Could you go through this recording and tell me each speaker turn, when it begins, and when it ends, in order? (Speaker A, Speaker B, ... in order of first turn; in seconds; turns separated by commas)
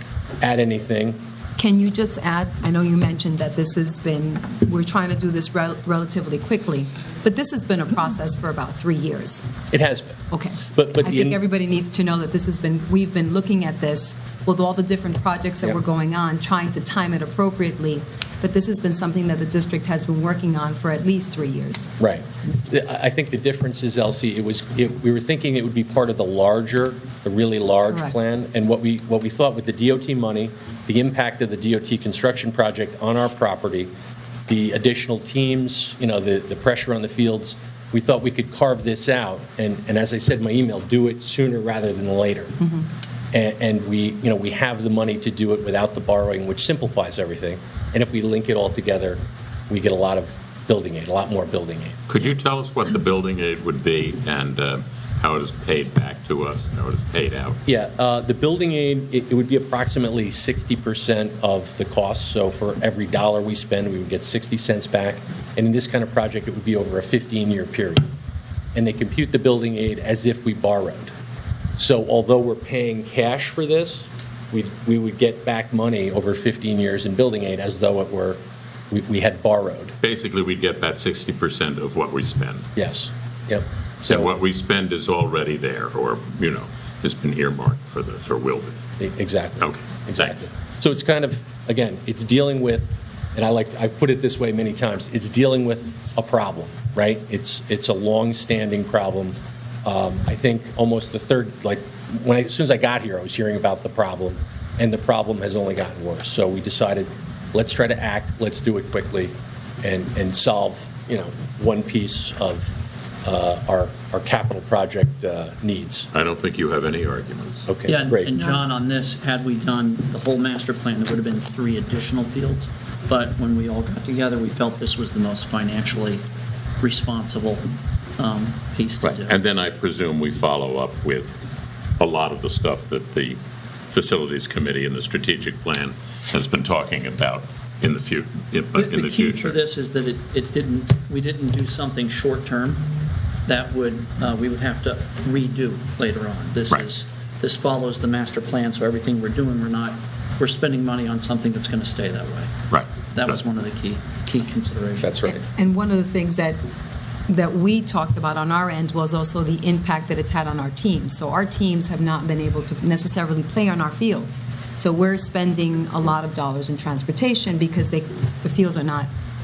Speaker A: 0.4-1.2, Speaker B: 1.6-9.4, Speaker A: 9.7-11.4, Speaker B: 10.3-21.9, Speaker A: 22.0-33.9, Speaker B: 27.9-28.1, Speaker A: 34.5-42.6, Speaker A: 43.3-52.0, Speaker C: 52.1-57.6, Speaker A: 57.7-68.0, Speaker A: 68.8-71.1, Speaker A: 71.8-78.4, Speaker A: 78.9-80.0, Speaker C: 80.0-82.7, Speaker A: 82.8-84.3, Speaker C: 84.0-88.8, Speaker A: 89.0-116.1, Speaker C: 89.6-90.5, Speaker C: 116.1-117.7, Speaker A: 117.7-118.3, Speaker D: 117.8-126.2, Speaker D: 126.8-127.7, Speaker D: 128.2-129.4, Speaker C: 129.0-131.3, Speaker C: 132.0-133.4, Speaker C: 133.9-139.6, Speaker D: 138.7-142.8, Speaker D: 143.5-152.5, Speaker C: 152.7-153.4, Speaker D: 153.1-155.2, Speaker A: 155.0-155.4, Speaker B: 155.3-156.6, Speaker B: 157.3-169.1